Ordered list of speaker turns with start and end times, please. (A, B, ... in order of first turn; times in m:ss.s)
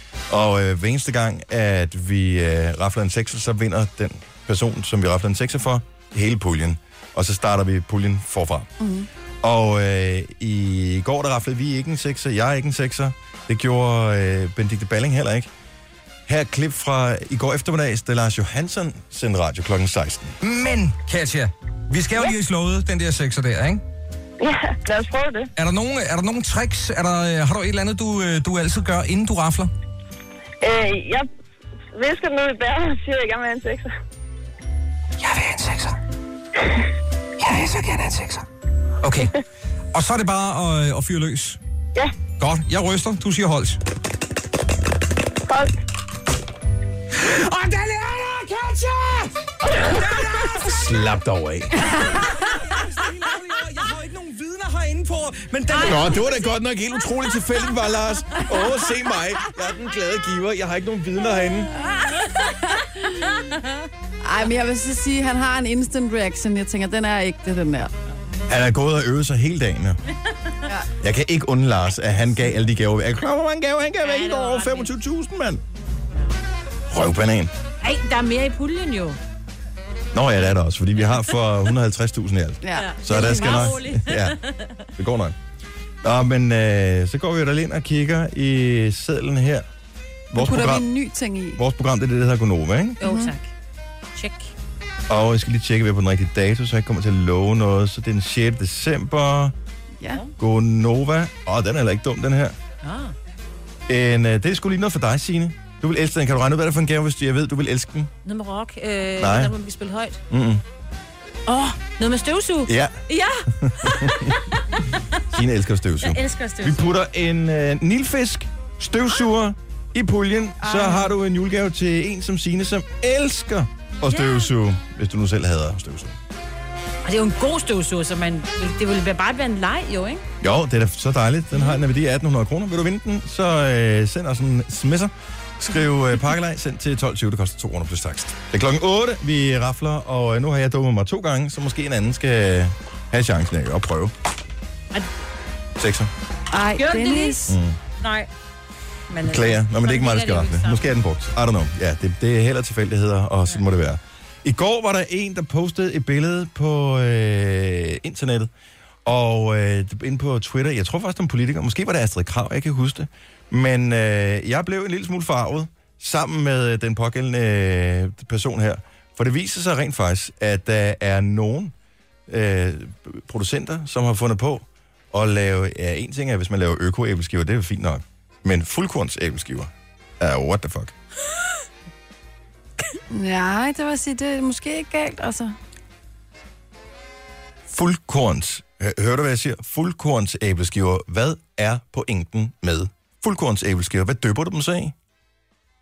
0:00.3-0:08.7 A
0:08.8-0:09.1 B
0:09.4-0:15.5 A
0:16.3-0:20.4 A
0:20.4-0:23.8 C
0:24.4-0:25.5 D
0:25.6-0:29.7 C
0:30.6-0:31.3 D
0:31.9-0:33.9 D
0:35.2-0:36.0 C
0:37.4-0:38.5 C
0:39.0-0:39.4 C
0:39.9-0:41.6 C
0:42.4-0:43.8 C
0:45.5-0:45.7 D
0:47.1-0:51.0 C
0:50.7-0:51.8 A
0:51.8-0:56.4 C
0:55.7-0:56.1 E
0:55.8-1:01.7 A
1:01.8-1:02.6 E
1:02.4-1:03.3 B
1:03.3-1:03.7 E
1:04.2-1:07.9 B
1:08.5-1:10.0 A
1:11.0-1:15.6 A
1:14.0-1:14.9 E
1:16.9-1:17.5 A
1:17.8-1:19.2 E
1:20.1-1:24.4 A
1:22.6-1:23.8 B
1:22.8-1:24.9 E
1:25.0-1:25.4 A
1:26.0-1:29.7 A
1:30.3-1:30.9 A
1:30.4-1:31.6 B
1:31.6-1:33.0 A
1:33.0-1:33.5 E
1:33.0-1:33.3 B
1:34.1-1:34.5 E
1:35.1-1:39.6 A
1:40.4-1:42.6 A
1:42.8-1:43.2 E
1:43.9-1:48.1 A
1:48.2-1:50.2 E
1:49.2-1:49.5 A
1:50.3-1:50.6 A
1:51.5-1:55.2 E
1:52.7-1:54.4 A
1:55.3-2:06.2 A
1:56.0-1:57.0 E
2:04.0-2:04.5 E
2:07.0-2:10.2 E
2:10.4-2:24.1 A
2:25.8-2:26.1 A
2:26.5-2:27.6 B
2:26.8-2:27.4 E
2:27.5-2:27.8 A
2:28.0-2:28.3 E
2:29.1-2:31.0 E
2:29.2-2:38.5 A
2:39.0-2:51.7 A
2:52.3-3:00.9 A
3:03.1-3:05.6 B
3:07.7-3:15.0 A